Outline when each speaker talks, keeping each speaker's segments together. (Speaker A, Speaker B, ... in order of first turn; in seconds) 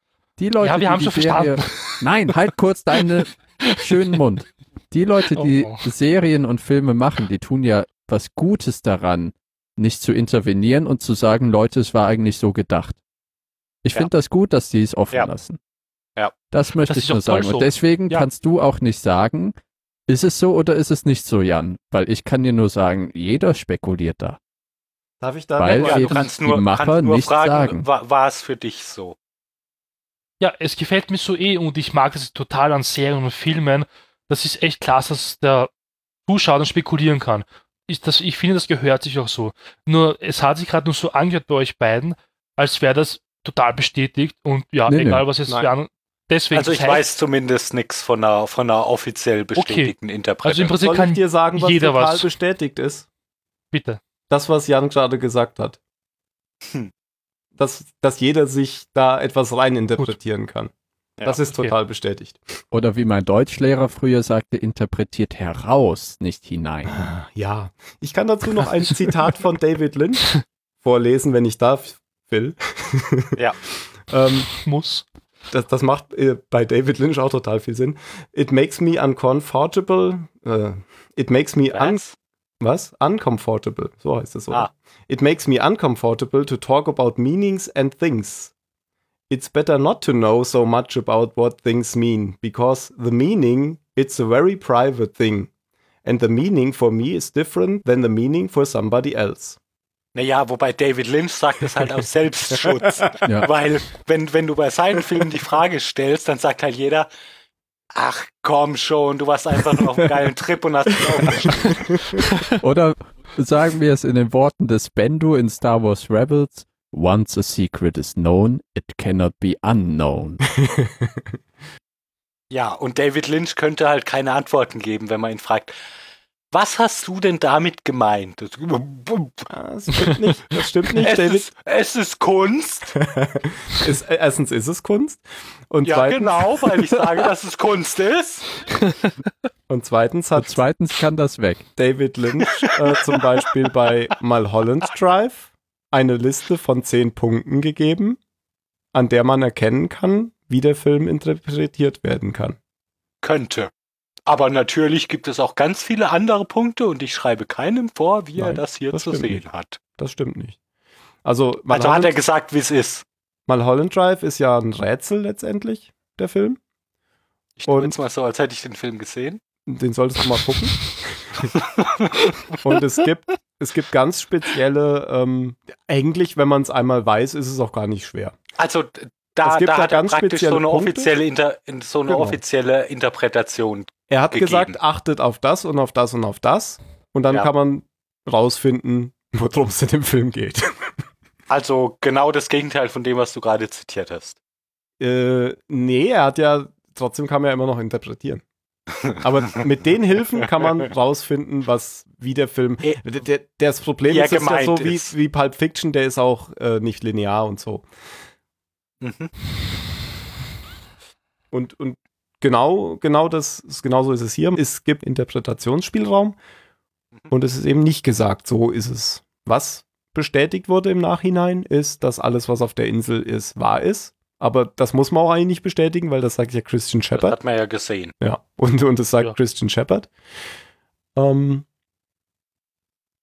Speaker A: 0.4-13.0, 13.8-15.6, 16.5-19.6, 20.1-24.4, 25.6-27.8, 44.9-45.2, 62.7-67.0, 112.6-120.4, 140.3-141.7
Speaker B: 0.6-2.0, 5.3-5.9, 16.9-18.2, 30.4-35.7, 36.3-47.0, 49.5-49.9, 50.4-52.3, 53.7-54.0, 74.6-75.0, 138.8-139.1
Speaker C: 25.2-26.1, 45.5-45.7, 50.8-53.1, 54.3-55.8, 57.6-60.7, 61.2-62.6, 66.8-73.3, 74.0-74.5, 75.5-82.0, 82.6-88.5, 89.3-95.5, 96.0-99.6, 102.5-103.1, 111.3-112.2, 120.6-121.2, 129.5-131.4, 132.9-136.5, 139.7-140.6, 141.8-148.2, 148.9-152.6, 158.4-159.4, 160.0-160.6, 161.2-162.1, 163.5-166.6, 167.7-167.9, 169.7-171.5, 172.6-178.3, 179.4-181.1, 182.1-182.4, 184.1-190.9, 195.0-198.4, 199.1-207.9, 211.5-216.4, 217.3-227.4, 228.2-230.1, 231.2-231.7
Speaker D: 25.7-29.1, 46.5-50.8, 81.7-82.1, 100.1-107.1, 107.9-112.0, 122.5-125.7, 126.5-129.5, 131.0-133.0, 135.8-138.5, 153.2-153.7, 154.3-159.8, 161.7-163.0, 167.6-169.4, 171.6-172.2, 178.6-184.8, 191.5-194.3, 204.0-205.1, 209.0-209.3, 227.1-228.1